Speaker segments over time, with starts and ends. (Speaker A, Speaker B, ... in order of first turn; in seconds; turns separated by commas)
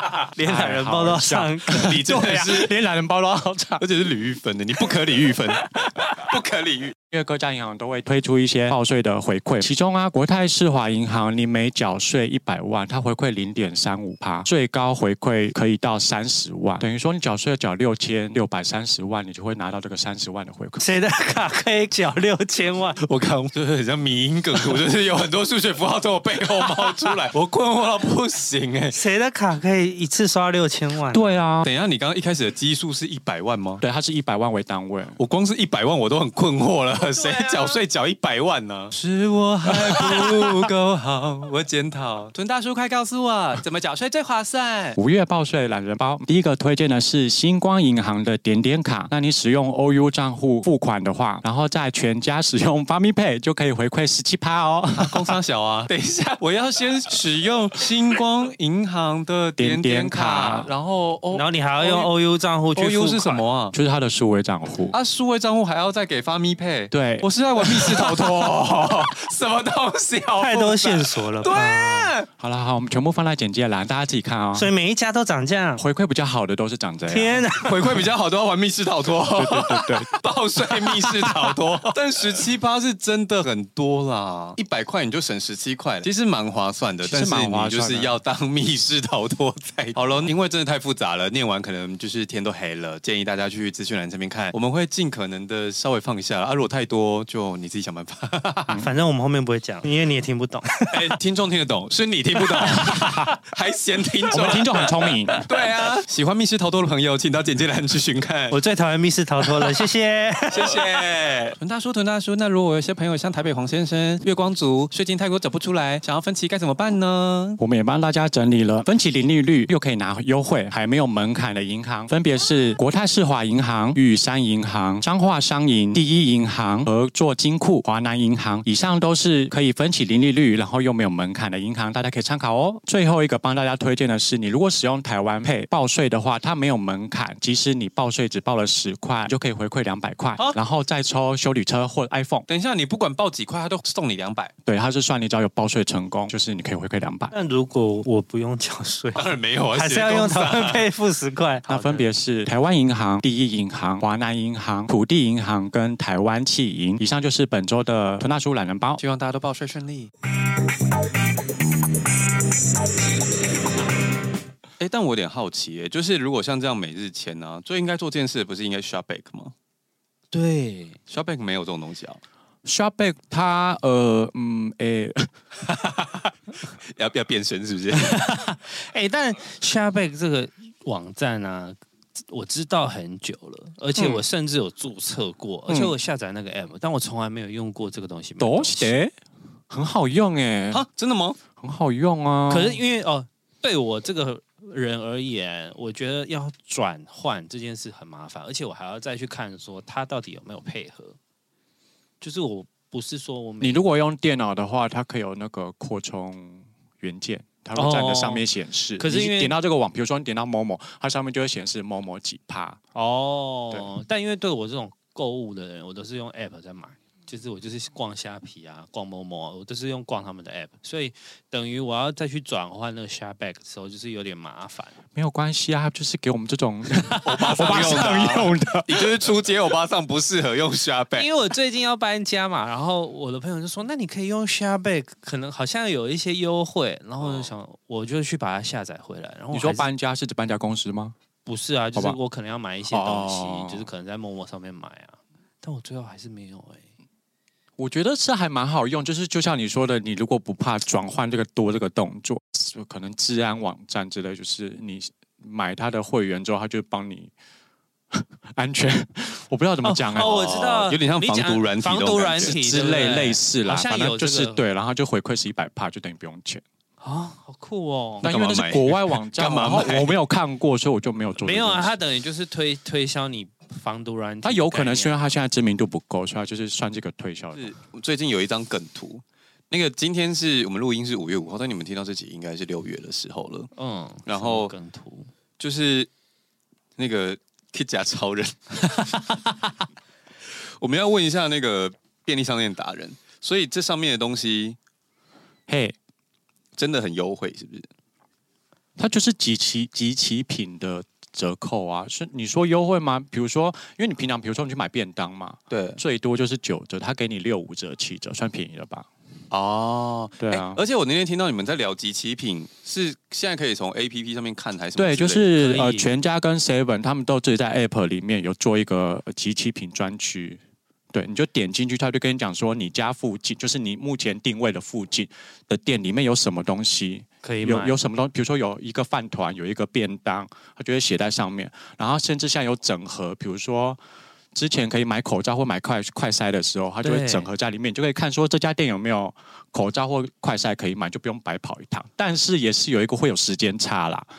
Speaker A: 0.2-1.9, Speaker B: 0.4-3.8, Speaker C: 1.8-2.7, Speaker C: 3.8-7.0, Speaker B: 7.1-20.8, Speaker A: 20.8-23.0, Speaker C: 23.0-28.9, Speaker A: 28.9-31.4, Speaker B: 31.1-31.6, Speaker C: 31.6-33.8, Speaker B: 33.8-35.2, Speaker C: 35.2-45.0, Speaker A: 37.1-37.8, Speaker B: 39.7-40.4, Speaker B: 45.0-55.3, Speaker C: 55.0-62.1, Speaker B: 59.6-60.7, Speaker A: 61.3-63.4, Speaker C: 62.8-63.7, Speaker B: 63.7-64.9, Speaker C: 64.9-72.3, Speaker B: 66.9-69.1, Speaker A: 70.4-72.1, Speaker B: 72.4-74.7, Speaker A: 74.5-75.8, Speaker B: 75.8-77.5, Speaker A: 77.1-78.0, Speaker C: 77.6-98.8, Speaker B: 79.3-80.1, Speaker A: 81.1-81.6, Speaker B: 87.0-88.2, Speaker A: 98.7-100.7, Speaker C: 100.9-108.6, Speaker B: 102.6-103.3, Speaker A: 102.6-103.2, Speaker B: 104.3-105.5, Speaker A: 104.5-105.4, Speaker A: 108.5-111.0, Speaker C: 110.5-117.6, Speaker B: 117.6-142.4, Speaker C: 142.5-144.5, Speaker B: 144.7-147.3, Speaker A: 147.3-152.1, Speaker C: 149.1-150.9, Speaker B: 151.7-159.0, Speaker C: 159.0-160.1, Speaker C: 164.8-169.5, Speaker A: 170.3-171.0, Speaker C: 171.1-172.2, Speaker B: 172.6-175.3, Speaker C: 175.7-176.3, Speaker C: 176.9-178.2, Speaker A: 177.9-188.9, Speaker B: 185.7-185.9, Speaker B: 188.4-189.1, Speaker B: 189.7-190.8, Speaker C: 190.7-191.4, Speaker B: 191.6-192.8, Speaker A: 192.5-201.2, Speaker A: 202.2-203.8, Speaker B: 203.6-212.8, Speaker A: 207.8-208.4, Speaker A: 209.0-209.5, Speaker A: 212.9-224.9, Speaker B: 225.1-229.1, Speaker C: 227.2-231.3, Speaker A: 227.4-227.9, Speaker A: 231.1-239.9, Speaker C: 237.2-237.5, Speaker B: 239.5-241.2, Speaker A: 241.4-246.9, Speaker B: 242.9-243.9, Speaker B: 247.8-257.3, Speaker B: 258.1-260.6, Speaker A: 259.8-264.6, Speaker C: 260.2-262.6, Speaker B: 262.4-266.6, Speaker A: 267.0-268.3, Speaker B: 268.2-272.0, Speaker C: 268.2-270.2, Speaker A: 271.4-275.2, Speaker B: 274.4-277.7, Speaker C: 277.5-283.7, Speaker A: 283.8-285.3, Speaker C: 284.3-284.7, Speaker C: 285.6-286.1, Speaker C: 287.0-289.3, Speaker C: 290.8-294.8, Speaker B: 295.7-295.9, Speaker C: 296.8-297.9, Speaker B: 299.0-309.1, Speaker C: 305.7-306.0, Speaker C: 309.5-315.5, Speaker B: 310.4-310.8, Speaker B: 315.0-320.6, Speaker A: 315.5-316.1, Speaker B: 321.1-334.0, Speaker A: 327.4-328.0, Speaker B: 334.5-344.3, Speaker A: 337.0-337.5